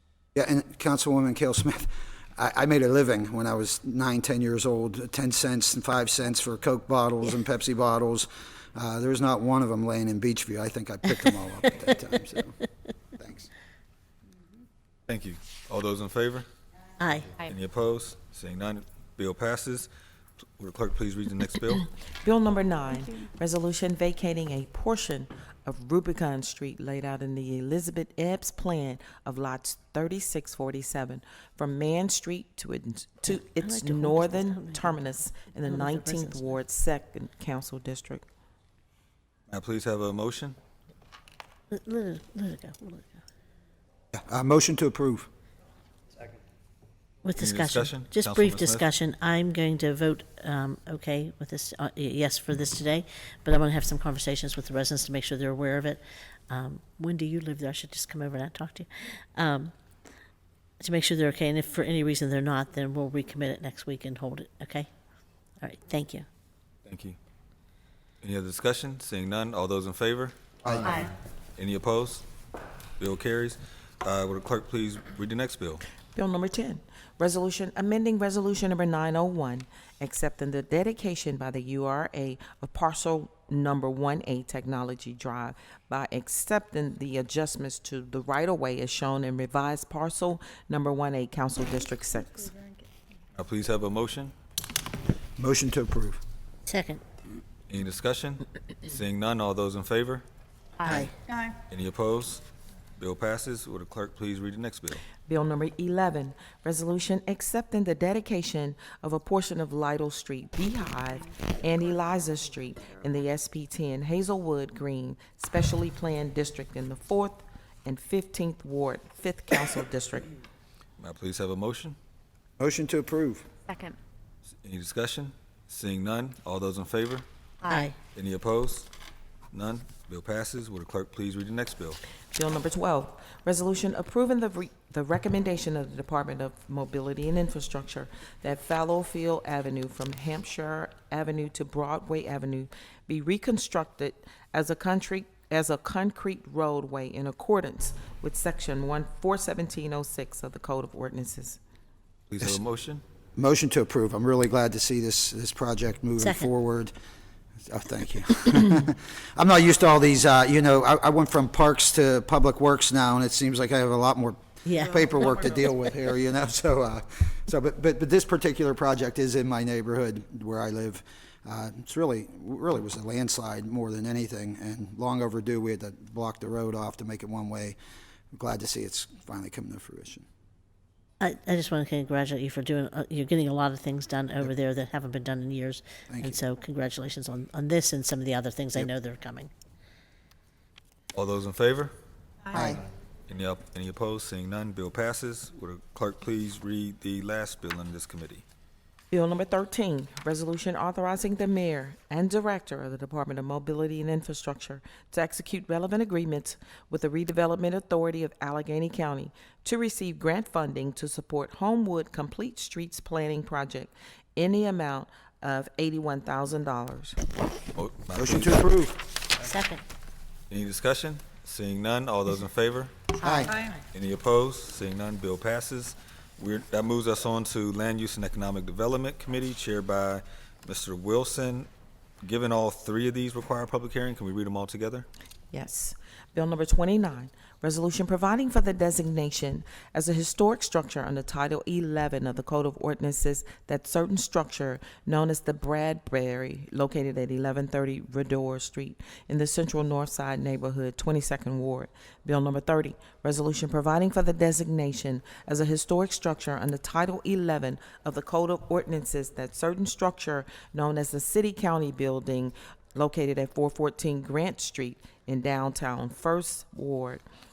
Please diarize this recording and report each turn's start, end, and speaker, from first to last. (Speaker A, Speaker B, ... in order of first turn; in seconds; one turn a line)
Speaker A: 0.3-12.6
Speaker A: 13.2-13.5
Speaker B: 15.1-16.4
Speaker C: 17.0-17.3
Speaker B: 17.4-19.9
Speaker B: 20.6-21.9
Speaker D: 22.2-38.2
Speaker C: 33.2-35.0
Speaker C: 35.6-36.4
Speaker B: 39.5-40.5
Speaker C: 41.7-43.1
Speaker A: 44.1-45.3
Speaker C: 47.2-59.7
Speaker B: 47.4-48.8
Speaker C: 60.8-64.9
Speaker C: 65.6-66.2
Speaker B: 66.8-67.2
Speaker B: 68.2-70.8
Speaker A: 70.6-71.0
Speaker B: 71.6-72.2
Speaker B: 73.0-75.8
Speaker D: 76.1-92.5
Speaker B: 93.3-94.3
Speaker A: 95.4-96.2
Speaker C: 96.7-97.0
Speaker B: 97.7-100.2
Speaker C: 100.8-101.1
Speaker B: 101.7-102.4
Speaker B: 103.0-105.0
Speaker D: 105.2-120.3
Speaker B: 121.0-122.0
Speaker A: 122.6-123.5
Speaker C: 123.7-123.9
Speaker B: 124.6-127.2
Speaker C: 127.7-128.0
Speaker B: 128.0-128.9
Speaker B: 129.5-132.0
Speaker D: 132.3-151.6
Speaker B: 152.3-153.0
Speaker A: 153.3-156.9
Speaker C: 156.2-156.5
Speaker A: 157.7-177.8
Speaker C: 164.7-165.0
Speaker A: 178.3-180.2
Speaker C: 181.2-189.5
Speaker A: 186.1-186.4
Speaker B: 191.1-191.9
Speaker A: 192.5-192.8
Speaker B: 193.3-198.4
Speaker D: 199.1-217.2
Speaker B: 217.7-218.6
Speaker A: 218.2-219.0
Speaker C: 219.5-219.8
Speaker B: 220.5-223.0
Speaker A: 223.2-223.6
Speaker B: 223.9-231.7
Speaker B: 232.2-235.1
Speaker D: 235.5-267.2